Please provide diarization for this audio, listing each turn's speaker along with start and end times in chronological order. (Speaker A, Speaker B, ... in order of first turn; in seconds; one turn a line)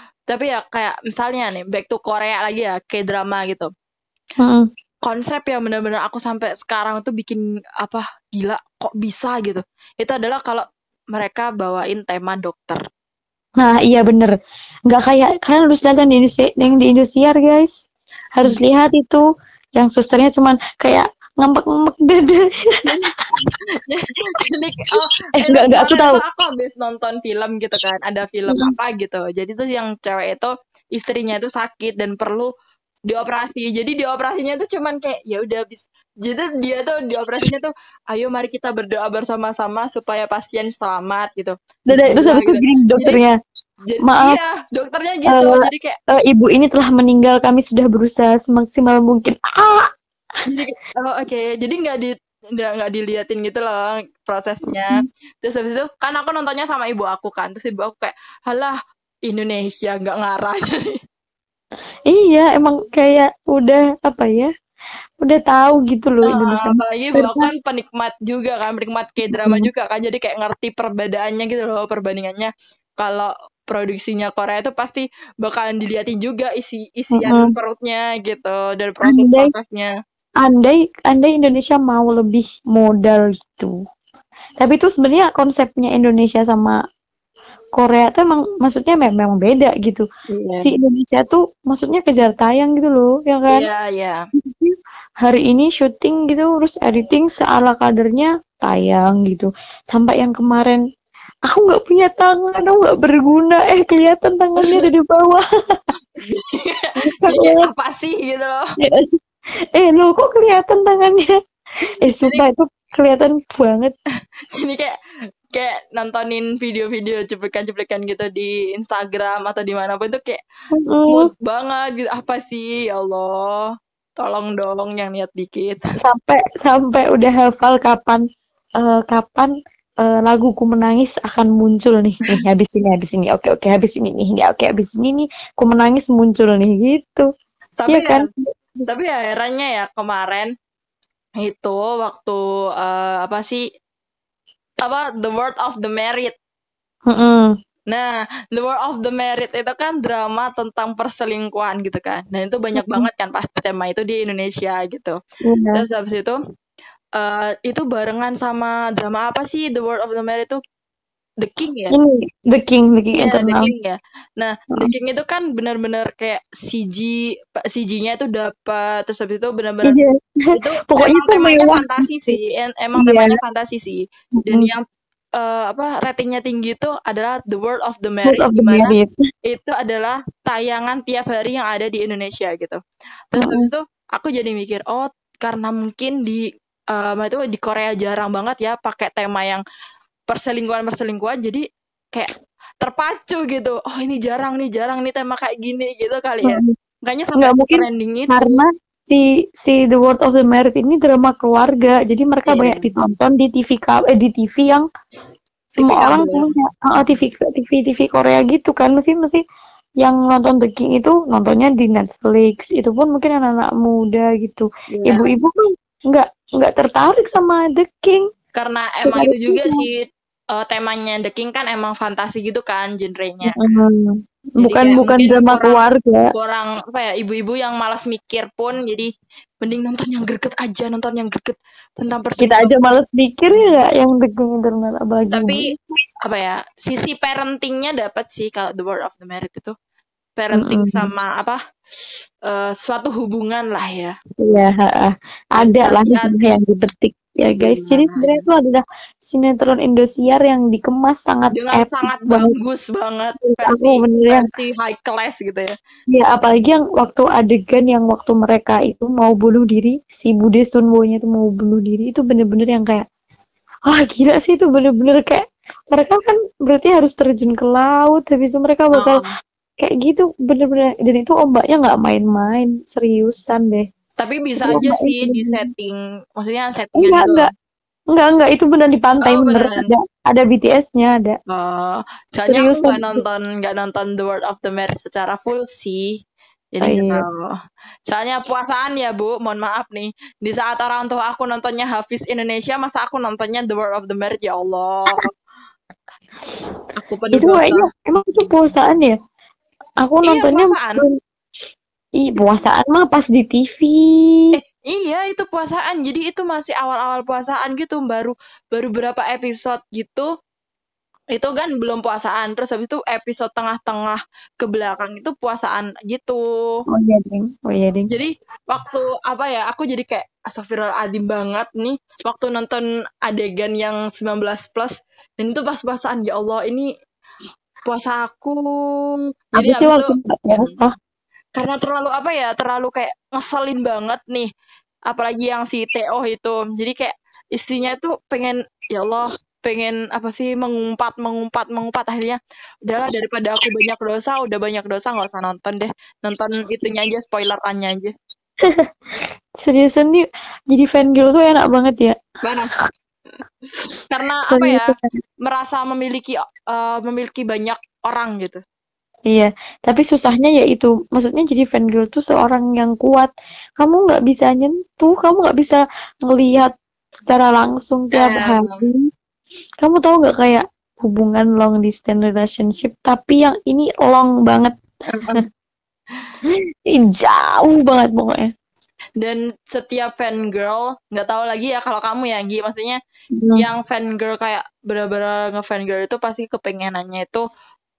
Speaker A: 0.3-3.7
Speaker A: 5.0-12.8
Speaker B: 13.6-14.3
Speaker B: 14.9-17.7
Speaker B: 18.4-19.2
Speaker B: 19.8-22.4
Speaker A: 23.8-32.5
Speaker B: 25.4-26.2
Speaker A: 33.1-43.2
Speaker B: 41.9-43.3
Speaker A: 43.9-45.9
Speaker B: 44.0-44.4
Speaker B: 45.3-49.9
Speaker A: 50.5-58.7
Speaker B: 54.8-55.0
Speaker A: 59.3-61.0
Speaker B: 62.1-64.5
Speaker B: 65.2-67.5
Speaker A: 66.2-79.9
Speaker B: 69.3-69.7
Speaker B: 77.1-77.5
Speaker B: 79.0-79.5
Speaker B: 80.4-83.7
Speaker B: 84.6-86.7
Speaker B: 87.8-90.0
Speaker A: 90.3-90.7
Speaker B: 90.6-93.7
Speaker A: 93.5-94.2
Speaker B: 94.4-100.8
Speaker B: 101.5-105.4
Speaker A: 104.6-104.9
Speaker A: 106.2-108.6
Speaker B: 107.0-107.7
Speaker B: 108.8-109.1
Speaker B: 109.7-111.3
Speaker B: 112.0-113.9
Speaker A: 112.2-112.5
Speaker A: 114.5-115.0
Speaker A: 115.5-120.4
Speaker B: 120.8-121.3
Speaker A: 121.1-123.6
Speaker A: 124.2-125.8
Speaker B: 126.0-128.2
Speaker B: 128.8-129.5
Speaker B: 130.0-137.2
Speaker A: 137.8-138.3
Speaker B: 137.9-138.8
Speaker A: 138.9-140.5
Speaker A: 141.4-143.6
Speaker A: 144.8-146.3
Speaker B: 147.1-147.5
Speaker A: 147.9-155.2
Speaker B: 152.8-153.1
Speaker B: 155.4-155.8
Speaker A: 155.7-156.4
Speaker A: 157.2-160.6
Speaker A: 161.4-161.9
Speaker B: 161.9-163.7
Speaker A: 163.2-170.0
Speaker B: 169.8-170.1
Speaker A: 170.5-174.8
Speaker B: 170.9-172.1
Speaker B: 173.0-173.4
Speaker B: 174.4-174.7
Speaker A: 175.4-178.9
Speaker B: 178.2-179.1
Speaker A: 179.4-182.8
Speaker A: 183.3-189.6
Speaker B: 183.4-183.7
Speaker A: 190.3-192.3
Speaker A: 192.8-198.6
Speaker B: 196.4-196.7
Speaker B: 197.4-204.8
Speaker A: 202.5-202.8
Speaker A: 205.8-206.5
Speaker B: 205.8-209.4
Speaker B: 210.0-218.2
Speaker A: 214.9-215.3
Speaker A: 218.5-223.6
Speaker B: 219.0-219.8
Speaker B: 223.4-226.3
Speaker A: 224.6-229.1
Speaker A: 229.6-232.8
Speaker B: 232.4-235.6
Speaker A: 235.3-235.7
Speaker A: 236.2-239.7
Speaker A: 240.4-241.6
Speaker B: 240.5-241.1
Speaker A: 242.4-244.1
Speaker B: 244.4-252.5
Speaker A: 245.6-246.6
Speaker A: 247.6-248.4
Speaker A: 251.5-255.7
Speaker B: 253.4-254.5
Speaker B: 256.1-263.0
Speaker B: 263.9-269.2
Speaker A: 268.9-269.3
Speaker B: 269.8-273.8
Speaker A: 274.2-277.5
Speaker B: 274.6-275.7
Speaker B: 277.0-277.5
Speaker B: 278.1-281.4
Speaker A: 279.2-279.9
Speaker A: 281.5-286.1
Speaker B: 282.5-283.2
Speaker A: 286.8-287.5
Speaker B: 286.8-287.2
Speaker A: 288.1-295.3
Speaker A: 296.9-297.9
Speaker B: 297.3-299.1
Speaker B: 300.0-301.1
Speaker A: 300.2-301.0
Speaker B: 302.2-304.4
Speaker A: 304.5-310.3
Speaker A: 311.3-316.4
Speaker B: 316.9-318.1
Speaker A: 318.1-326.9
Speaker A: 327.8-328.6
Speaker A: 329.6-330.8
Speaker B: 329.6-330.9
Speaker A: 331.6-334.5
Speaker A: 335.1-348.1
Speaker B: 349.6-352.1
Speaker A: 352.4-352.7
Speaker A: 354.1-354.9
Speaker B: 354.5-355.2
Speaker A: 355.4-358.6
Speaker B: 359.3-366.7
Speaker B: 367.2-369.1
Speaker A: 368.1-368.8
Speaker B: 369.8-374.7
Speaker A: 375.1-375.4
Speaker B: 376.5-378.5
Speaker A: 379.2-383.0
Speaker B: 383.3-383.6
Speaker A: 383.6-387.4